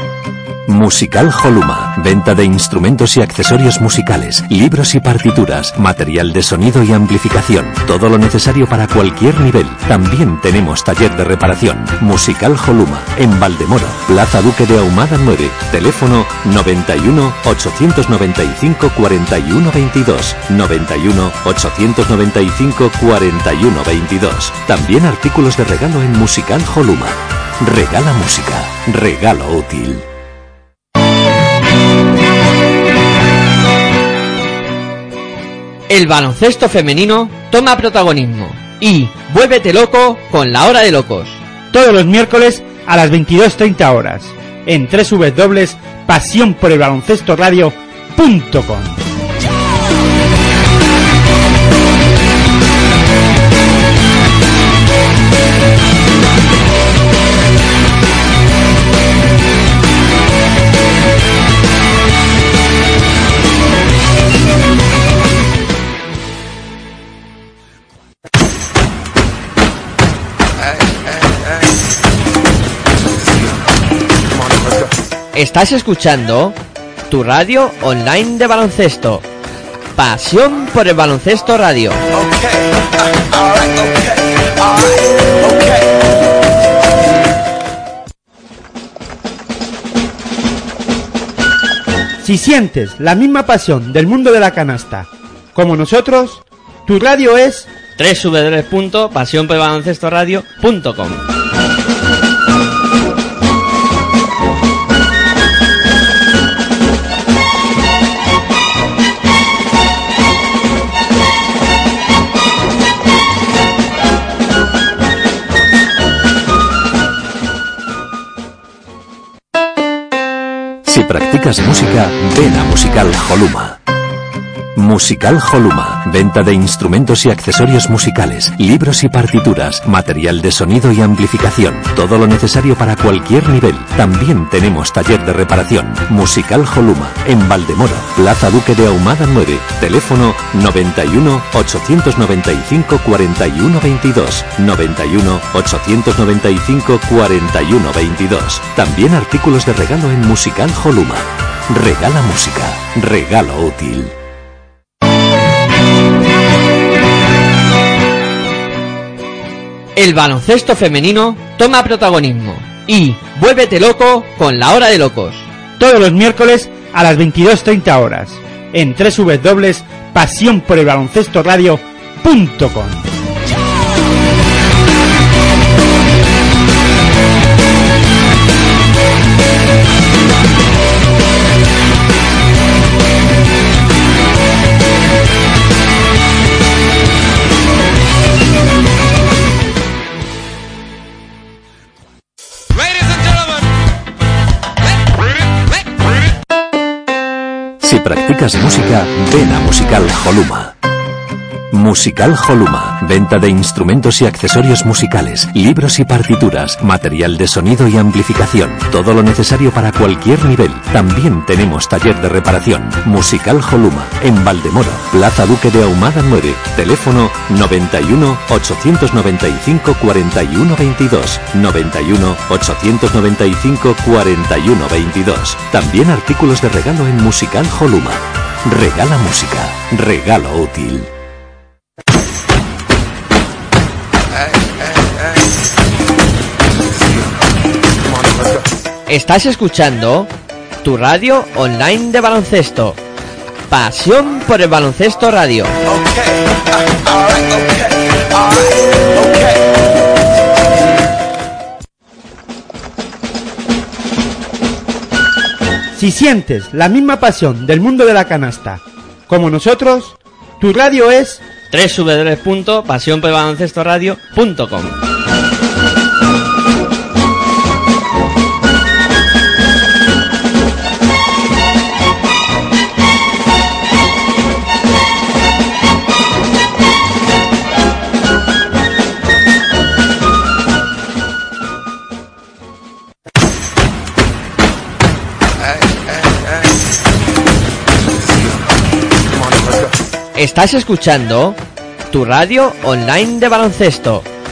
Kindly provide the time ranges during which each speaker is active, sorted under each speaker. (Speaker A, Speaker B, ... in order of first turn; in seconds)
Speaker A: 0.7-30.0, 120.8-123.8, 124.8-154.1, 197.8-200.7, 201.7-231.1
Speaker B: 35.9-41.4, 75.3-76.5, 77.1-79.2, 79.9-82.0, 98.0-101.2, 160.0-165.5, 239.1-240.3, 240.8-243.0, 243.7-245.7, 261.7-264.9, 290.3-291.6, 292.1-294.2
Speaker C: 41.7-49.0, 92.2-97.7, 165.8-173.0, 255.9-261.4